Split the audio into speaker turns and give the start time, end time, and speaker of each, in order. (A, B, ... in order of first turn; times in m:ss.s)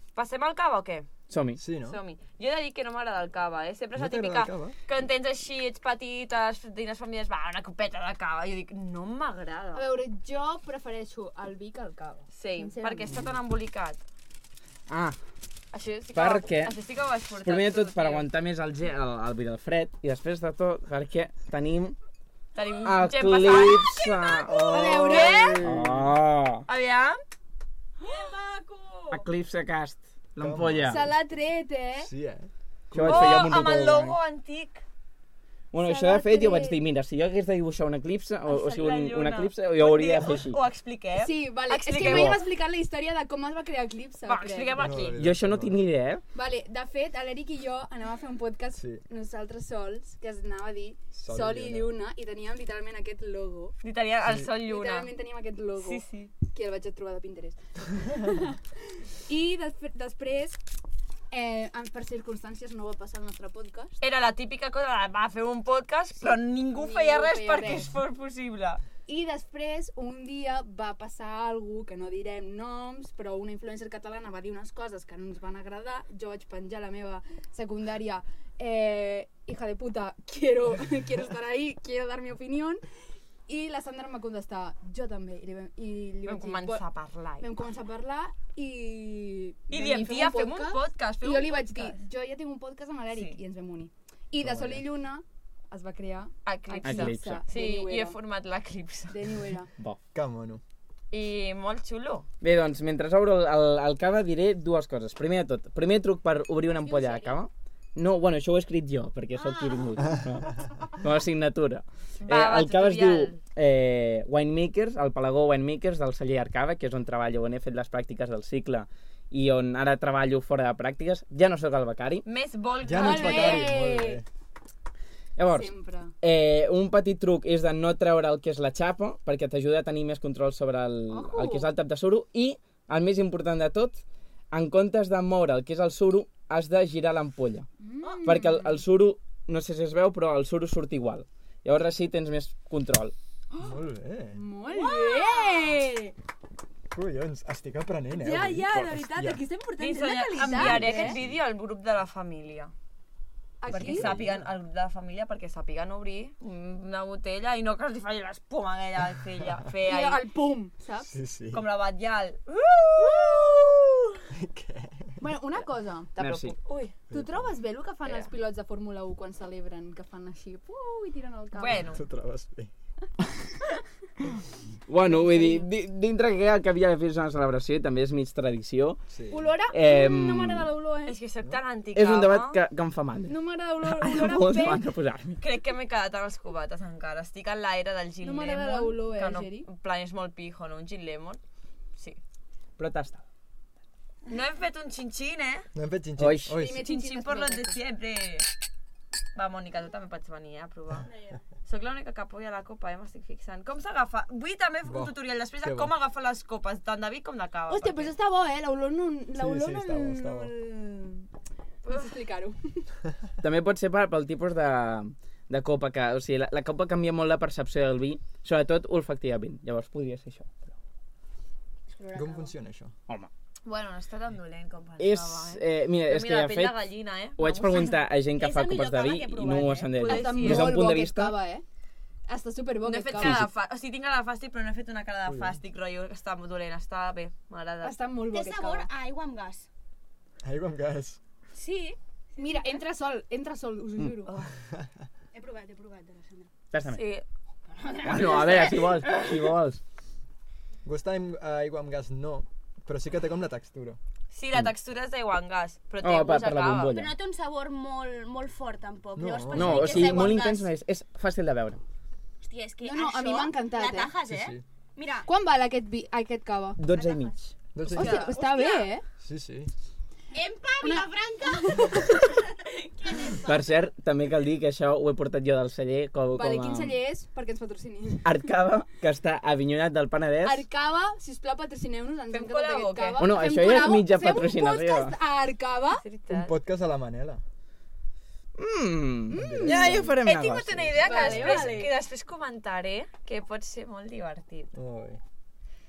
0:00.1-0:01.1 A
0:01.3-0:01.6 B
0:01.6-0:02.0 C
0:01.8-0:09.8 A
0:03.9-0:04.8 C
0:09.7-0:13.3 D
0:12.3-0:14.0 A
0:14.9-0:15.2 B
0:15.7-0:18.3 A
0:16.1-0:16.7 B
0:17.4-0:21.9 B
0:22.5-0:25.7 A
0:22.8-0:25.0 B
0:24.4-0:26.1 C
0:24.6-0:25.6 D
0:25.6-0:26.6 B
0:26.7-0:27.2 A
0:28.1-0:29.1 E
0:29.1-0:31.0 B
0:30.4-0:31.1 C
0:30.8-0:32.1 D
0:32.0-0:33.7 C
0:32.9-0:34.2 B
0:33.0-0:34.8 A
0:35.7-0:40.6 B
0:35.8-0:36.8 D
0:38.4-0:42.4 A
0:41.2-0:44.8 D
0:42.0-0:42.4 B
0:44.2-0:45.2 A
0:44.7-0:45.8 C
0:45.1-0:46.2 B
0:46.3-0:53.7 D
0:48.8-0:49.0 C
0:51.1-0:51.9 C
0:53.8-0:55.1 A
0:54.5-0:58.6 D
0:55.8-0:56.3 A
0:59.2-1:00.6 D
1:01.3-1:04.0 D
1:04.0-1:08.8 A
1:06.7-1:07.9 D
1:09.0-1:22.8 D
1:23.5-1:26.8 D
1:26.2-1:27.5 A
1:27.4-1:38.2 D
1:29.7-1:32.0 A
1:33.1-1:33.4 A
1:34.4-1:34.9 C
1:36.4-1:39.3 A
1:36.8-1:37.4 B
1:39.1-1:39.7 D
1:40.1-1:40.6 C
1:41.1-1:42.3 A
1:42.4-2:02.2 B
1:46.7-1:47.4 E
1:49.4-1:49.9 E
1:52.2-1:53.4 A
2:02.2-2:03.7 A
2:02.8-2:04.2 C
2:02.9-2:04.2 D
2:05.4-2:17.7 B
2:05.5-2:06.1 D
2:11.1-2:11.7 D
2:17.8-2:18.8 D
2:18.0-2:18.4 E
2:18.2-2:23.1 B
2:23.5-2:23.8 D
2:23.6-2:24.4 C
2:24.3-2:26.1 D
2:24.7-2:25.8 E
2:26.9-2:29.4 C
2:28.1-2:31.2 D
2:29.8-2:32.7 A
2:30.4-2:31.1 E
2:33.6-2:34.2 D
2:33.7-2:40.2 A
2:33.9-2:34.5 C
2:39.8-2:41.1 D
2:41.0-2:41.7 C
2:41.5-2:44.0 A
2:43.0-2:43.6 D
2:44.3-2:45.2 C
2:45.2-2:46.2 D
2:46.2-2:47.0 A
2:46.2-2:46.5 B
2:47.1-2:47.4 C
2:47.1-2:51.9 D
2:51.5-2:52.0 A
2:51.8-2:52.7 C
2:54.9-2:59.0 B
2:55.0-2:55.6 D
2:59.1-2:59.5 C
2:59.3-3:01.2 D
2:59.7-3:00.7 B
3:01.1-3:02.6 A
3:01.9-3:05.4 B
3:03.3-3:04.8 D
3:05.4-3:11.4 A
3:08.2-3:09.7 D
3:12.8-3:13.2 B
3:14.3-3:15.7 A
3:15.7-3:16.8 C
3:16.2-3:16.5 B
3:16.5-3:17.8 D
3:16.7-3:18.5 A
3:19.3-3:21.1 A
3:21.0-3:21.4 E
3:21.6-3:28.1 A
3:24.8-3:25.9 C
3:27.7-3:31.3 D
3:29.3-3:30.5 C
3:31.8-3:32.8 D
3:33.4-3:40.7 B
3:41.9-3:42.5 E
3:42.1-3:42.9 C
3:43.6-3:48.0 A
3:45.0-3:46.8 B
3:47.4-3:51.4 B
3:48.3-3:50.0 E
3:49.9-3:50.9 A
3:50.0-3:51.6 D
3:52.3-3:53.5 D
3:52.8-3:58.0 A
3:53.2-3:53.5 B
3:55.2-3:55.6 C
3:57.8-3:58.9 D
3:58.3-3:59.7 E
4:00.4-4:01.2 C
4:01.5-4:02.7 E
4:02.4-4:04.4 D
4:05.3-4:06.5 E
4:06.7-4:07.0 B
4:06.8-4:07.2 A
4:07.7-4:09.5 E
4:08.0-4:09.8 B
4:08.2-4:08.8 A
4:10.8-4:14.0 C
4:14.3-4:17.0 A
4:16.0-4:17.2 B
4:16.9-4:20.7 E
4:19.2-4:20.3 C
4:19.5-4:21.8 B
4:22.4-4:25.3 E
4:22.8-4:24.2 D
4:24.3-4:24.6 C
4:25.2-4:26.8 D
4:26.8-4:27.5 B
4:26.9-4:28.9 E
4:27.7-4:28.3 C
4:27.8-4:29.0 D
4:28.0-4:28.3 A
4:29.2-4:29.7 C
4:30.3-4:33.7 E
4:30.8-4:32.3 D
4:33.4-4:37.0 B
4:36.3-4:38.5 D
4:38.2-4:40.6 B
4:40.4-4:46.0 D
4:42.3-4:43.4 A
4:43.2-4:45.2 B
4:45.9-4:46.5 A
4:46.3-4:47.4 C
4:48.6-4:51.6 B
4:49.3-4:50.1 D
4:49.3-4:50.2 C
4:49.7-4:54.7 A
4:51.0-4:51.9 D
4:51.1-4:51.8 C
4:54.7-4:55.2 C